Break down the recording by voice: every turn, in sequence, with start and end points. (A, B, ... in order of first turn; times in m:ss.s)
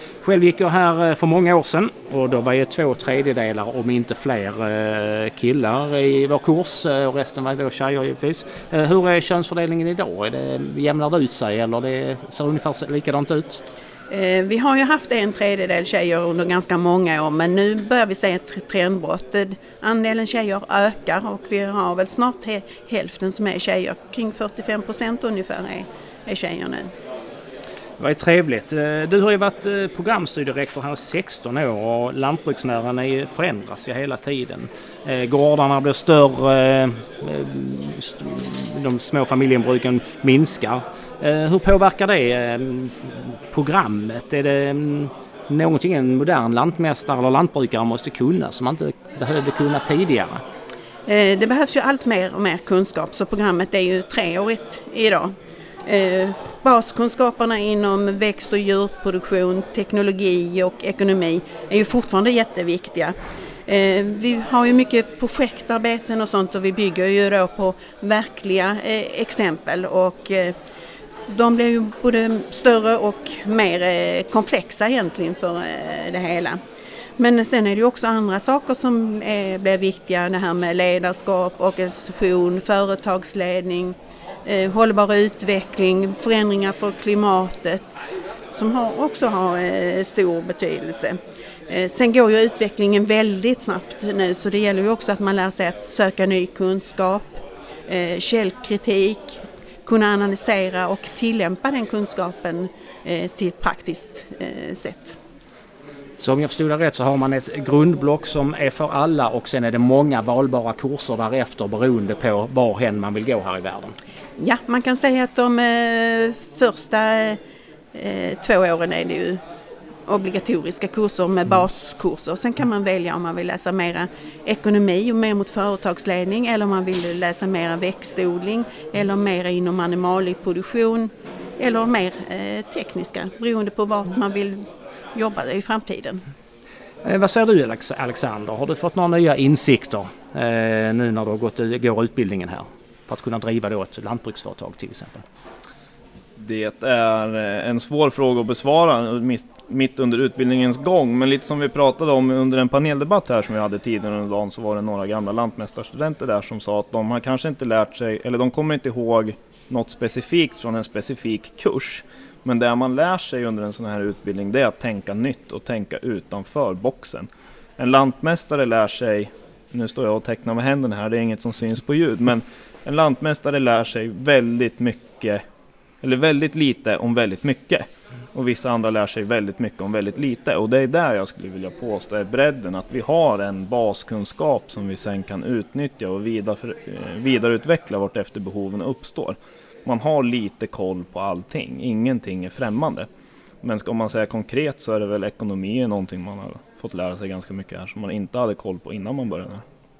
0:00.2-0:13.6 A
0:14.1-0:26.9 B
0:28.0-0:50.4 A
0:51.1-0:55.3 B
0:55.9-1:03.1 B
1:03.7-1:10.6 B
1:11.3-1:16.6 B
1:17.2-1:45.2 B
1:46.2-1:53.9 A
1:54.4-1:57.4 B
1:57.9-1:59.4 B
2:00.1-2:14.6 B
2:15.1-2:16.2 B
2:17.0-2:25.2 A
2:26.4-2:55.4 C
2:56.0-3:13.1 C
3:13.6-3:19.6 C